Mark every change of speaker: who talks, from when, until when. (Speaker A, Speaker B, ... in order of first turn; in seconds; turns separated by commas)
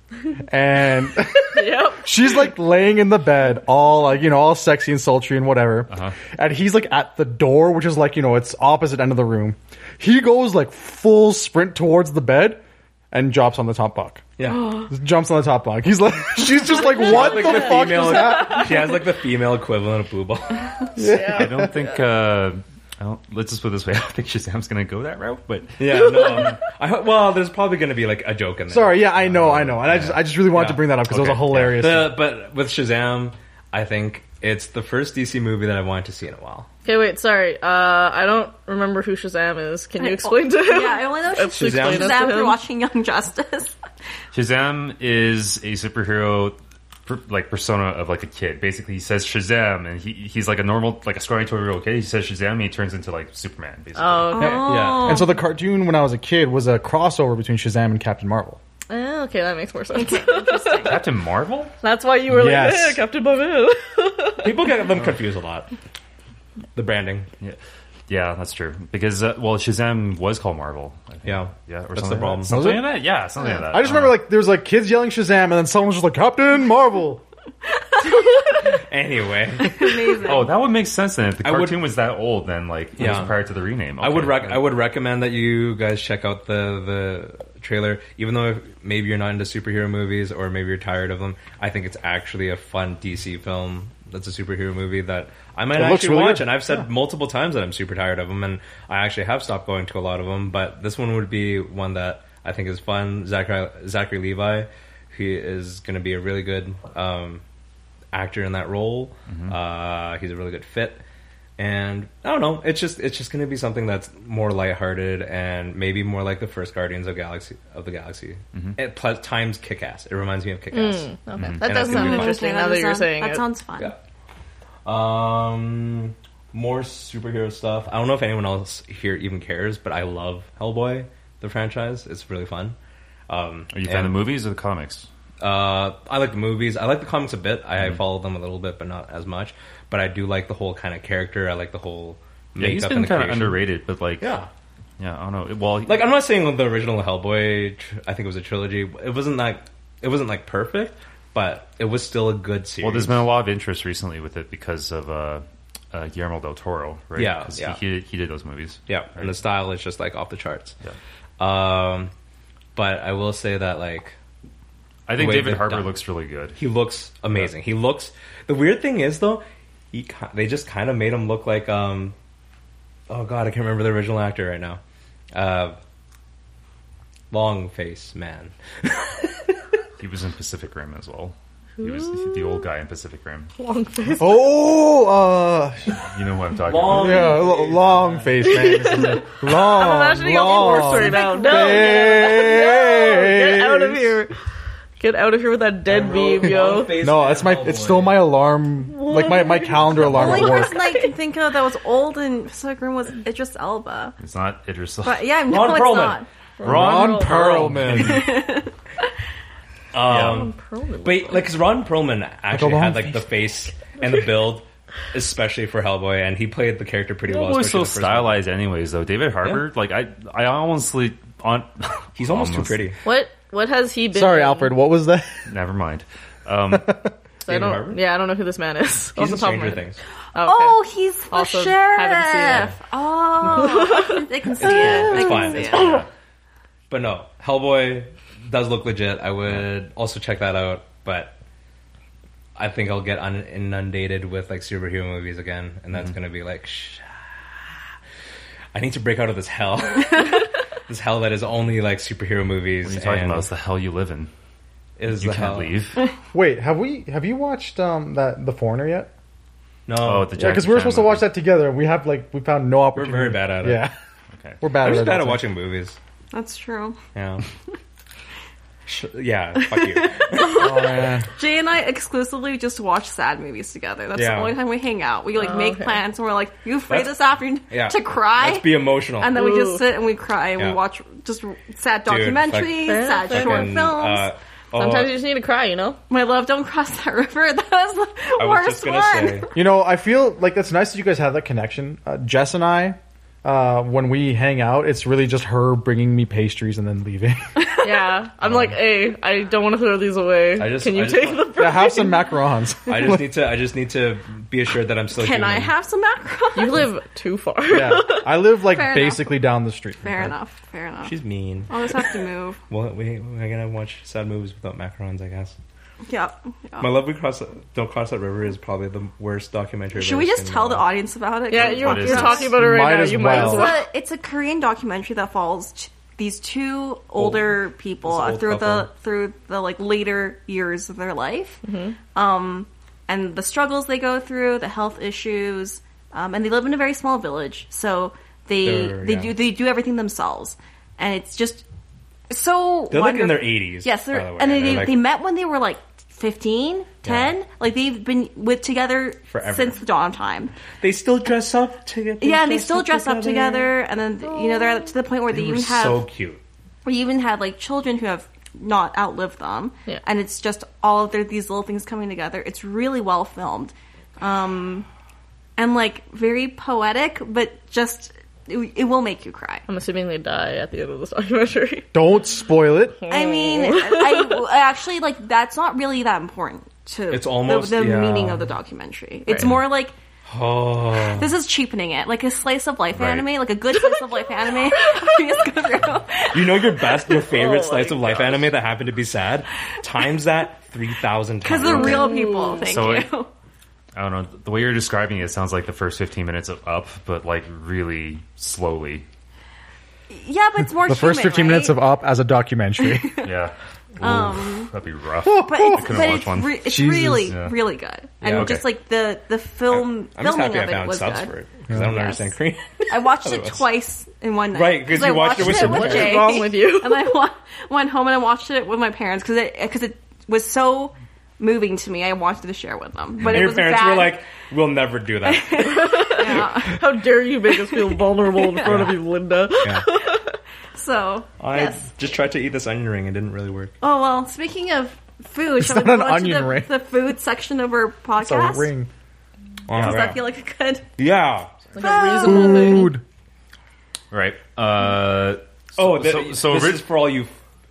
Speaker A: 0.4-14.3, Speaker B: 1.5-2.1, Speaker C: 14.4-14.8, Speaker A: 14.8-18.8, Speaker C: 16.8-21.0, Speaker B: 17.1-17.6, Speaker A: 21.0-21.7, Speaker B: 21.1-21.7, Speaker D: 21.3-26.4, Speaker C: 25.8-29.6, Speaker A: 28.7-32.2, Speaker D: 29.3-30.2, Speaker C: 30.4-30.9, Speaker D: 31.1-31.8, Speaker C: 31.5-36.7, Speaker B: 36.8-42.6, Speaker E: 40.0-43.8, Speaker C: 41.5-42.3, Speaker D: 44.3-54.6, Speaker B: 54.0-54.9, Speaker E: 54.3-55.4, Speaker A: 54.5-58.6, Speaker C: 54.6-55.3, Speaker B: 58.9-61.0, Speaker E: 59.9-61.0, Speaker D: 60.8-61.7, Speaker B: 61.8-64.7, Speaker A: 62.3-63.0, Speaker C: 64.4-65.7, Speaker C: 66.7-67.3, Speaker D: 68.1-74.2, Speaker C: 71.2-72.8, Speaker A: 72.5-73.0, Speaker A: 73.6-77.2, Speaker C: 78.7-80.2, Speaker E: 79.6-80.5, Speaker D: 80.2-84.7, Speaker C: 81.4-81.9, Speaker C: 83.0-83.4, Speaker C: 84.0-107.4, Speaker A: 95.7-96.8, Speaker C: 108.1-111.0, Speaker D: 109.3-109.5, Speaker C: 111.6-122.4, Speaker B: 120.7-123.5, Speaker D: 121.4-121.9, Speaker E: 121.7-123.9, Speaker C: 124.8-132.8, Speaker C: 133.3-134.2, Speaker D: 133.7-135.1, Speaker C: 135.4-143.6, Speaker D: 142.6-144.3, Speaker C: 144.2-144.5, Speaker D: 145.0-146.1, Speaker C: 145.8-153.2, Speaker D: 152.8-159.4, Speaker C: 157.2-157.8, Speaker C: 158.9-160.8, Speaker C: 161.4-162.1, Speaker C: 162.7-164.1, Speaker D: 165.1-166.6, Speaker C: 165.1-166.0, Speaker C: 166.6-172.1, Speaker C: 173.1-174.8, Speaker C: 175.3-175.8, Speaker C: 177.3-179.6, Speaker D: 180.0-183.5, Speaker B: 181.8-182.3, Speaker B: 183.6-184.3, Speaker A: 184.2-186.0, Speaker D: 186.1-187.4, Speaker C: 186.7-188.4, Speaker A: 186.8-194.2, Speaker B: 188.5-194.3, Speaker E: 190.4-192.4, Speaker B: 195.0-197.0, Speaker C: 195.9-198.3, Speaker A: 197.0-200.8, Speaker B: 198.9-201.1, Speaker E: 200.1-204.2, Speaker D: 204.2-205.3, Speaker E: 205.0-206.3, Speaker C: 205.5-206.2, Speaker B: 206.6-207.8, Speaker A: 206.6-208.3, Speaker D: 206.6-208.3, Speaker C: 207.7-208.2, Speaker E: 208.0-208.7, Speaker C: 209.9-218.4, Speaker D: 210.0-210.4, Speaker B: 210.1-211.5, Speaker A: 212.5-213.3, Speaker D: 217.3-222.9, Speaker C: 222.2-223.0, Speaker B: 223.0-224.8, Speaker A: 224.1-225.4, Speaker D: 225.5-227.0, Speaker A: 226.7-227.1, Speaker C: 227.5-228.0, Speaker B: 227.5-230.8, Speaker C: 229.1-230.0, Speaker E: 230.4-236.0, Speaker B: 231.3-232.7, Speaker B: 233.5-234.2, Speaker C: 234.6-236.1, Speaker D: 235.7-236.0, Speaker C: 236.9-241.3, Speaker C: 242.6-247.4, Speaker C: 248.7-253.4, Speaker D: 252.8-254.3, Speaker C: 255.0-255.8, Speaker D: 255.1-256.0, Speaker A: 256.3-259.1, Speaker C: 259.9-260.4, Speaker D: 260.0-261.3, Speaker A: 260.3-263.9, Speaker C: 262.9-263.9, Speaker A: 264.6-265.4, Speaker C: 264.8-266.0, Speaker E: 266.3-267.0, Speaker C: 267.1-267.4, Speaker C: 268.9-270.7, Speaker E: 269.6-284.3, Speaker A: 270.5-271.3, Speaker C: 274.1-274.6, Speaker B: 275.4-276.0, Speaker C: 276.9-277.1, Speaker C: 277.7-279.4, Speaker B: 279.3-279.8, Speaker C: 282.1-285.1, Speaker B: 282.8-283.8, Speaker B: 284.7-286.0, Speaker E: 286.1-289.5, Speaker C: 288.4-289.5, Speaker A: 289.5-297.5, Speaker E: 297.6-297.9, Speaker B: 297.8-302.3, Speaker C: 300.5-301.6, Speaker A: 301.5-303.4, Speaker C: 302.9-305.7, Speaker E: 305.1-306.9, Speaker B: 306.6-308.3, Speaker A: 307.7-310.3, Speaker E: 308.6-309.4, Speaker E: 310.0-311.1, Speaker C: 311.0-311.7, Speaker E: 311.7-312.6, Speaker C: 312.7-315.5, Speaker E: 316.1-316.9, Speaker C: 316.8-320.9, Speaker E: 319.9-322.5, Speaker B: 321.5-323.8, Speaker D: 321.5-322.6, Speaker A: 322.5-323.7, Speaker E: 323.3-331.6, Speaker C: 327.1-328.9, Speaker B: 331.6-331.9, Speaker E: 332.1-341.6, Speaker C: 338.6-339.3, Speaker E: 342.3-350.5, Speaker C: 342.9-345.0, Speaker C: 347.0-347.3, Speaker C: 349.3-349.8, Speaker C: 350.8-353.7, Speaker E: 352.2-356.1, Speaker C: 355.3-356.4, Speaker E: 356.8-364.9, Speaker E: 365.6-369.6, Speaker B: 369.7-371.9, Speaker A: 371.9-373.0, Speaker B: 373.0-374.4, Speaker E: 373.1-379.9, Speaker C: 377.1-378.4, Speaker C: 380.3-381.3, Speaker E: 381.0-387.0, Speaker D: 382.9-383.4, Speaker C: 386.3-392.1, Speaker B: 387.1-388.5, Speaker E: 391.4-393.3, Speaker B: 391.7-392.7, Speaker D: 392.6-393.1, Speaker D: 393.9-399.0, Speaker E: 400.1-401.8, Speaker A: 400.9-403.2, Speaker E: 402.8-403.3, Speaker D: 403.2-407.6, Speaker E: 404.0-404.7, Speaker A: 405.2-407.4, Speaker E: 405.3-412.3, Speaker C: 408.2-408.6, Speaker D: 408.2-408.6, Speaker C: 409.7-413.7, Speaker A: 411.7-411.9, Speaker E: 412.9-424.2, Speaker C: 414.5-416.4, Speaker B: 415.4-417.2, Speaker C: 423.2-425.9, Speaker E: 425.2-426.9, Speaker B: 425.7-430.3, Speaker E: 427.6-428.7, Speaker C: 428.6-429.0, Speaker C: 429.6-429.9, Speaker E: 430.7-431.9, Speaker C: 431.4-433.7, Speaker E: 433.8-438.7, Speaker A: 435.6-436.7, Speaker A: 438.2-438.9, Speaker C: 439.7-440.2, Speaker E: 439.7-440.9, Speaker C: 441.0-441.7, Speaker B: 441.7-442.9, Speaker E: 441.8-442.9, Speaker A: 442.2-443.0, Speaker D: 444.1-446.9, Speaker C: 445.8-447.3